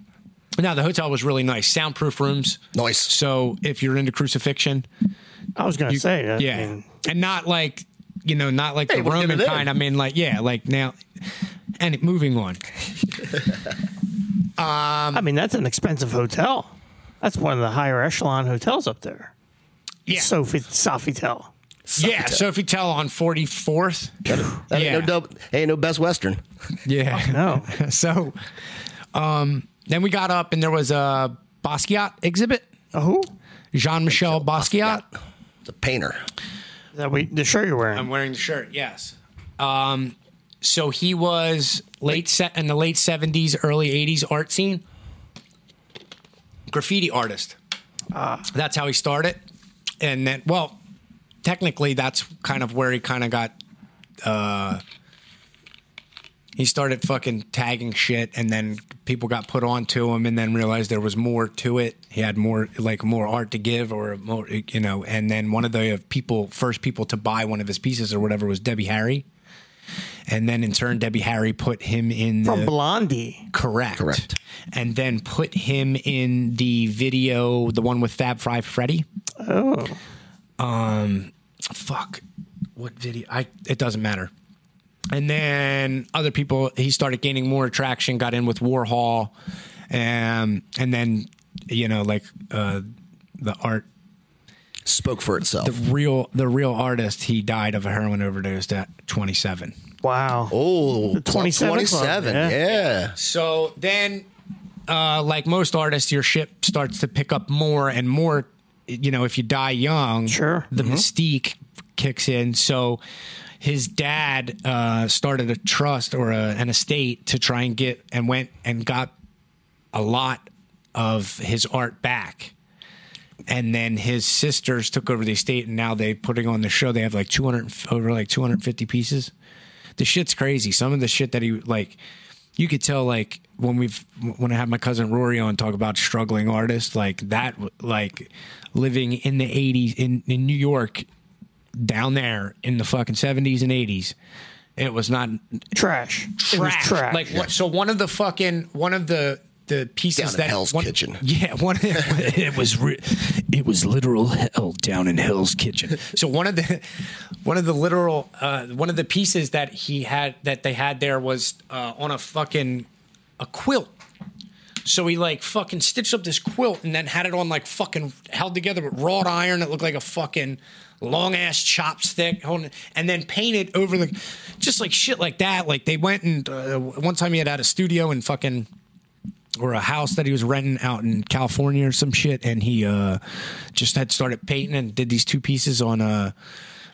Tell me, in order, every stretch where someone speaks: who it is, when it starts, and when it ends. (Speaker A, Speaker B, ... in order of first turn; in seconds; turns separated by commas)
Speaker A: 0.6-4.8, Speaker B: 2.7-3.1, Speaker C: 5.6-6.8, Speaker A: 5.9-11.0, Speaker B: 8.9-9.7, Speaker A: 11.8-12.6, Speaker A: 14.6-15.2, Speaker C: 15.1-19.3, Speaker C: 20.1-21.5, Speaker B: 21.9-22.4, Speaker A: 21.9-25.1, Speaker B: 24.2-26.4, Speaker A: 26.8-28.4, Speaker C: 27.1-27.7, Speaker A: 29.1-32.6, Speaker C: 32.9-33.3, Speaker A: 33.7-35.0, Speaker B: 34.1-36.2, Speaker C: 36.9-38.0, Speaker A: 37.9-44.8, Speaker A: 46.7-47.6, Speaker C: 48.1-48.5, Speaker A: 48.5-49.4, Speaker A: 50.0-50.8, Speaker A: 51.4-53.5, Speaker A: 54.2-54.8, Speaker A: 56.6-69.2, Speaker A: 70.3-72.7, Speaker C: 72.4-73.5, Speaker A: 73.5-79.1, Speaker B: 74.0-74.3, Speaker C: 79.4-80.0, Speaker A: 80.6-82.2, Speaker A: 82.8-84.3, Speaker A: 85.1-89.3, Speaker A: 89.9-92.8, Speaker A: 93.4-93.8, Speaker B: 94.8-95.8, Speaker A: 95.6-99.8, Speaker C: 100.0-100.5, Speaker B: 100.5-103.1, Speaker C: 101.2-102.5, Speaker A: 102.6-104.3, Speaker A: 104.9-113.0, Speaker C: 110.3-110.7, Speaker B: 110.8-111.0, Speaker A: 113.6-119.1, Speaker A: 119.9-122.5, Speaker A: 123.5-129.3, Speaker A: 130.0-132.0, Speaker A: 132.6-141.1, Speaker A: 141.8-144.1, Speaker A: 144.8-145.4, Speaker C: 145.8-147.3, Speaker A: 146.4-162.9, Speaker B: 150.2-151.2, Speaker A: 163.4-163.9, Speaker A: 164.8-178.7, Speaker A: 179.6-183.2, Speaker A: 183.7-186.3